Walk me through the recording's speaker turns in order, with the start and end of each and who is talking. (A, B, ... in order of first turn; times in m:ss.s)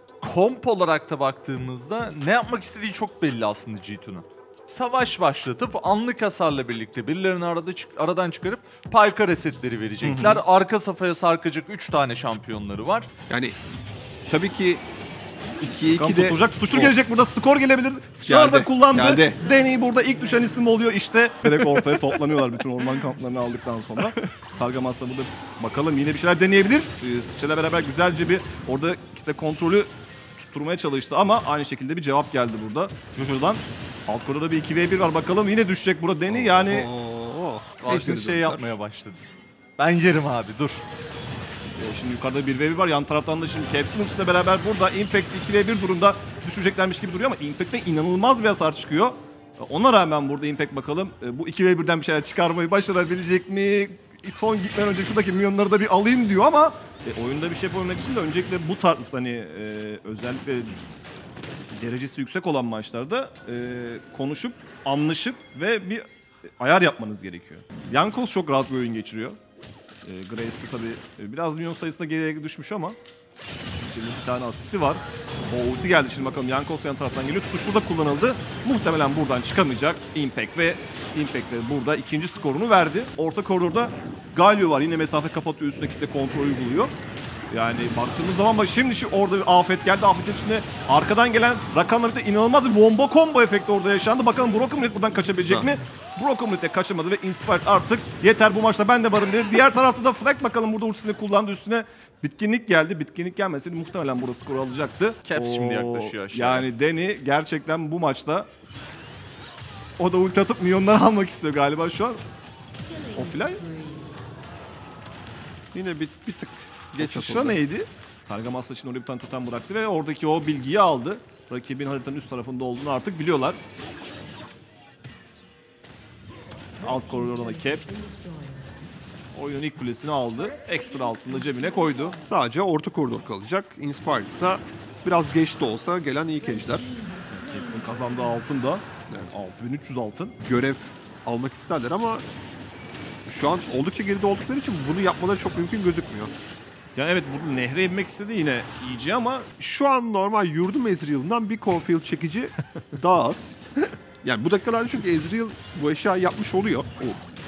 0:00.2-0:13.1 A
0:10.0-0:10.4 B
0:13.3-0:13.6 C
0:14.3-0:14.8 C
0:15.6-0:17.0 C
0:16.0-0:36.9 B
0:18.3-0:19.4 C
0:21.4-0:22.4 C
0:36.3-0:38.7 C
0:37.8-0:39.2 A
0:39.8-0:40.8 A
0:41.7-1:00.8 B
1:01.7-1:06.0 B
1:06.6-1:09.4 B
1:10.0-1:13.0 B
1:13.8-1:26.9 B
1:27.5-1:48.5 B
1:35.4-1:35.7 C
1:45.2-1:46.7 A
1:50.0-1:52.2 B
1:53.1-1:53.7 B
1:55.7-1:57.6 C
1:57.0-2:03.6 B
2:06.8-2:08.1 B
2:09.3-2:12.2 B
2:12.2-2:16.9 C
2:17.3-2:20.4 B
2:20.4-2:22.2 C
2:23.3-2:26.3 C
2:26.9-2:29.5 B
2:29.6-2:33.6 C
2:34.2-2:37.2 C